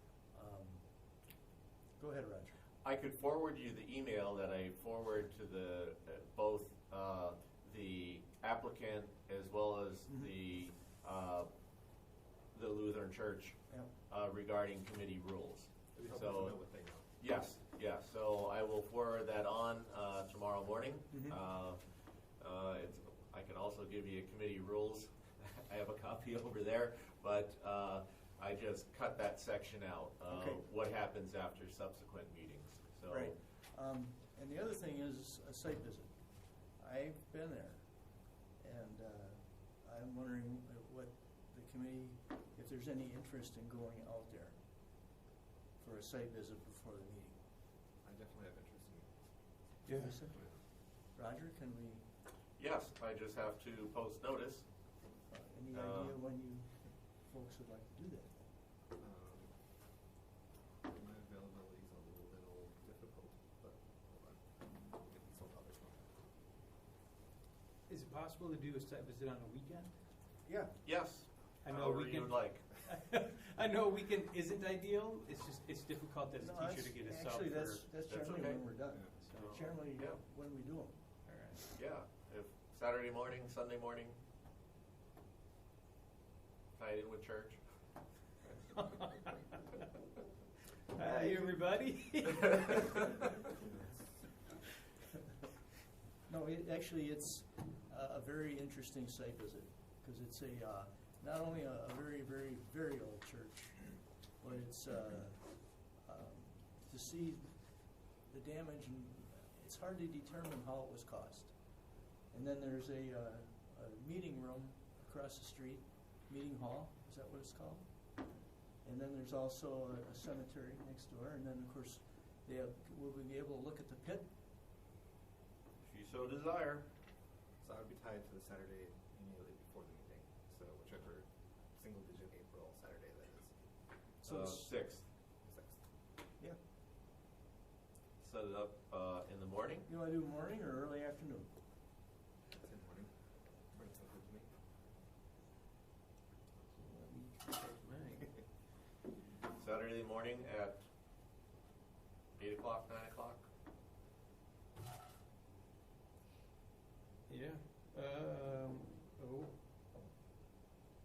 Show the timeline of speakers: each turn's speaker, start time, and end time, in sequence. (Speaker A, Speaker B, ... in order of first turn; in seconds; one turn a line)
Speaker A: 0.2-0.8
Speaker A: 2.0-2.6
Speaker B: 2.8-11.5
Speaker B: 12.5-16.6
Speaker C: 15.9-17.0
Speaker B: 17.2-21.8
Speaker B: 22.4-33.3
Speaker A: 30.3-30.6
Speaker A: 33.1-37.9
Speaker A: 38.6-44.6
Speaker A: 45.8-47.4
Speaker C: 48.0-49.1
Speaker D: 49.9-50.2
Speaker A: 49.9-52.0
Speaker C: 50.3-50.6
Speaker B: 52.6-54.6
Speaker A: 55.3-58.5
Speaker B: 55.7-56.1
Speaker C: 59.0-59.5
Speaker C: 60.8-66.0
Speaker D: 67.9-70.0
Speaker A: 70.5-70.8
Speaker B: 70.8-72.8
Speaker D: 71.6-77.9
Speaker A: 76.4-80.9
Speaker B: 78.0-78.6
Speaker D: 79.2-79.7
Speaker D: 81.2-81.7
Speaker B: 81.8-84.2
Speaker B: 86.8-87.6
Speaker D: 88.7-89.6
Speaker D: 90.9-93.6
Speaker A: 91.0-91.5
Speaker C: 93.6-94.2
Speaker A: 96.3-117.9
Speaker A: 118.8-124.3
Speaker B: 125.8-126.8
Speaker C: 127.6-133.6
Speaker A: 134.2-134.7
Speaker B: 134.2-135.0
Speaker C: 135.4-135.8
Speaker B: 138.2-139.9
Speaker A: 139.8-141.5
Speaker C: 142.5-143.1
Speaker C: 143.7-144.5
Speaker D: 146.7-148.4
Speaker B: 149.5-150.8
Speaker B: 152.4-153.5
Speaker D: 157.3-159.6